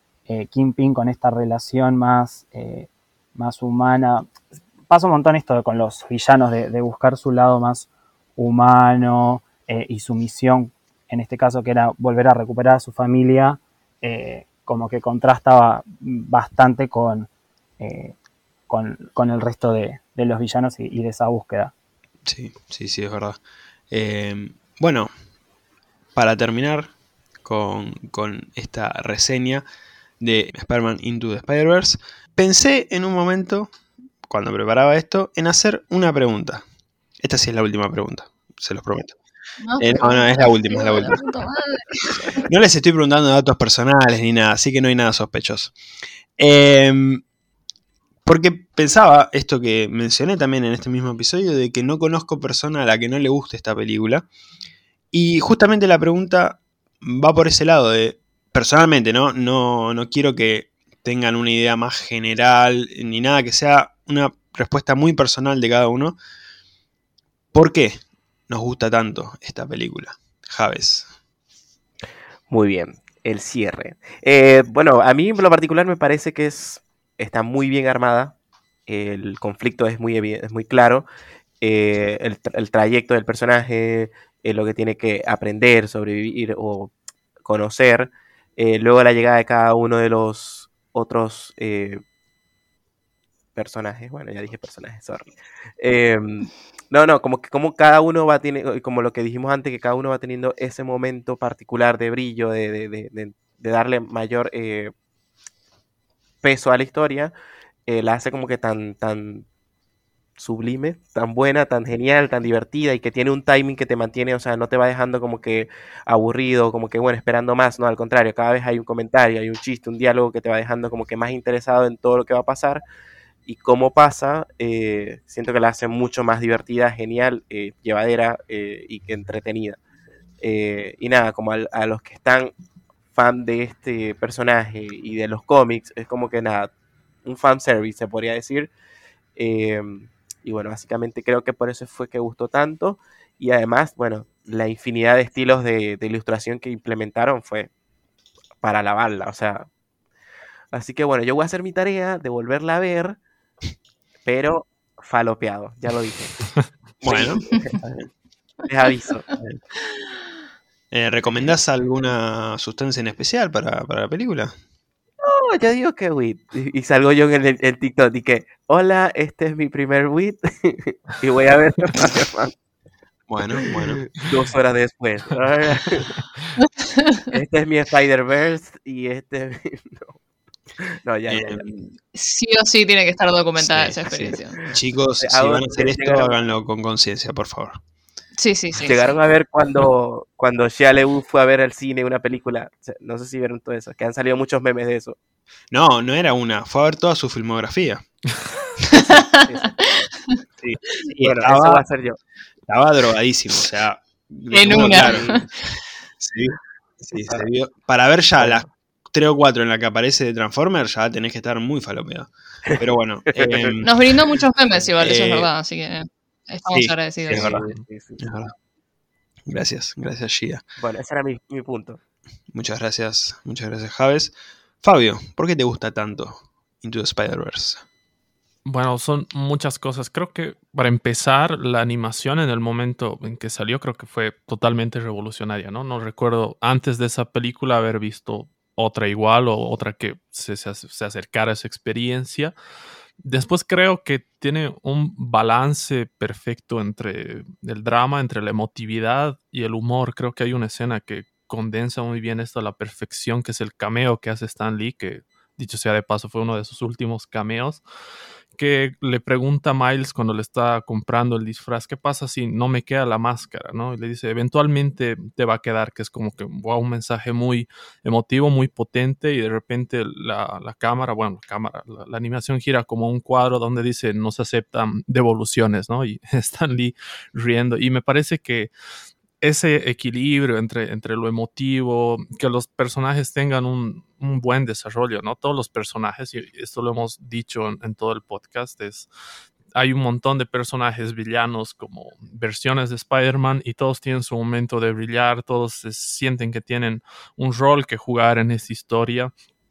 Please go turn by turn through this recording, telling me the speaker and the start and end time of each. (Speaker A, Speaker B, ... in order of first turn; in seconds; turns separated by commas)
Speaker A: 0.3-4.3, Speaker A: 4.9-17.3, Speaker A: 17.8-18.1, Speaker A: 18.7-21.7, Speaker B: 22.2-23.4, Speaker B: 23.9-25.1, Speaker B: 26.1-26.9, Speaker B: 27.4-29.6, Speaker B: 30.2-33.7, Speaker B: 34.2-36.6, Speaker B: 37.2-39.1, Speaker C: 39.6-41.8, Speaker B: 39.8-41.2, Speaker B: 42.5-45.8, Speaker B: 46.4-47.2, Speaker B: 48.2-54.2, Speaker B: 55.1-66.2, Speaker B: 67.5-71.1, Speaker D: 72.5-78.3, Speaker D: 78.9-81.0, Speaker D: 81.6-86.9, Speaker D: 87.4-92.0, Speaker D: 93.5-104.9, Speaker D: 106.4-107.3, Speaker D: 107.9-109.5, Speaker D: 110.4-122.8, Speaker D: 123.5-129.8, Speaker D: 130.4-132.5, Speaker D: 133.1-136.7, Speaker D: 137.2-138.7, Speaker D: 139.4-147.7, Speaker D: 148.6-149.7, Speaker D: 150.7-153.2, Speaker D: 154.2-156.4, Speaker D: 157.0-157.7, Speaker B: 157.0-158.1, Speaker D: 158.7-159.3, Speaker B: 159.3-159.6, Speaker B: 160.9-164.6, Speaker D: 165.2-172.5, Speaker B: 173.3-174.2, Speaker D: 173.6-176.1, Speaker C: 176.7-177.3, Speaker D: 177.3-180.2, Speaker D: 180.8-181.6, Speaker B: 181.3-181.9, Speaker C: 182.1-184.6, Speaker B: 183.6-187.8, Speaker D: 185.2-186.4, Speaker C: 188.4-189.1, Speaker D: 188.8-195.2, Speaker B: 195.7-198.1, Speaker C: 198.9-200.4, Speaker D: 199.4-199.8, Speaker B: 200.6-201.8, Speaker D: 201.2-202.2, Speaker B: 202.7-205.4, Speaker C: 204.5-205.4, Speaker D: 204.7-205.4, Speaker B: 206.2-214.0, Speaker D: 213.3-213.7, Speaker C: 213.8-217.6, Speaker B: 215.0-215.5, Speaker B: 216.7-217.7, Speaker D: 217.3-218.2, Speaker B: 218.2-218.5, Speaker B: 219.5-220.6, Speaker D: 220.8-222.0, Speaker B: 222.5-227.8, Speaker E: 228.6-242.5, Speaker E: 243.2-257.8, Speaker E: 258.5-278.7, Speaker E: 279.4-289.1, Speaker E: 289.7-299.3